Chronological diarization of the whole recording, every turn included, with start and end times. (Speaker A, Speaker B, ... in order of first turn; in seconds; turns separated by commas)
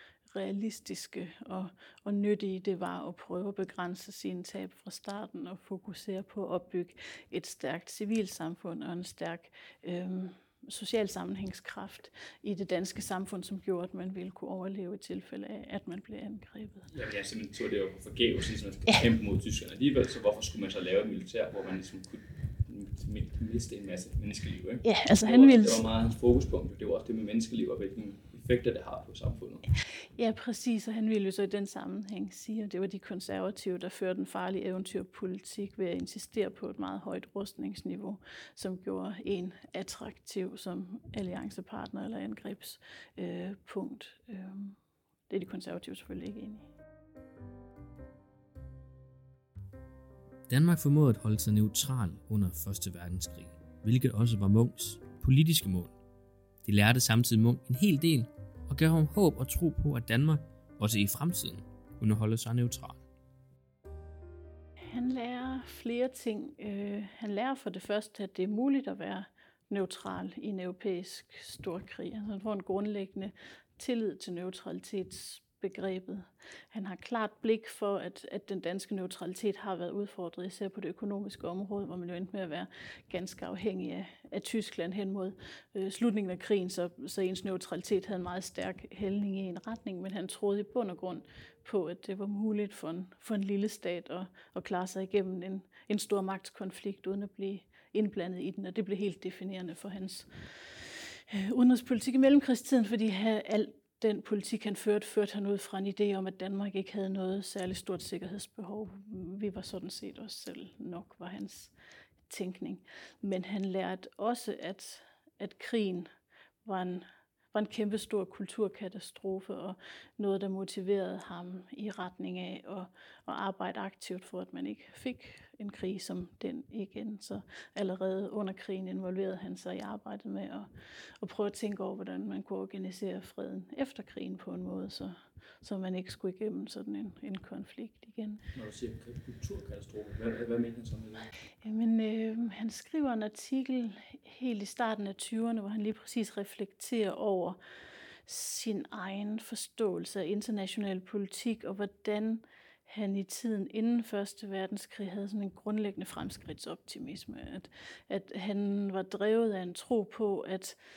Speaker A: 0.3-16.9, Speaker B: 16.9-29.6, Speaker A: 24.8-25.8, Speaker A: 30.1-44.8, Speaker A: 45.3-46.7, Speaker C: 50.5-55.9, Speaker C: 56.6-63.0, Speaker A: 64.9-111.7, Speaker A: 112.3-116.1, Speaker A: 116.6-130.7, Speaker A: 131.2-138.4, Speaker B: 138.5-141.3, Speaker A: 141.6-147.6, Speaker A: 148.2-160.8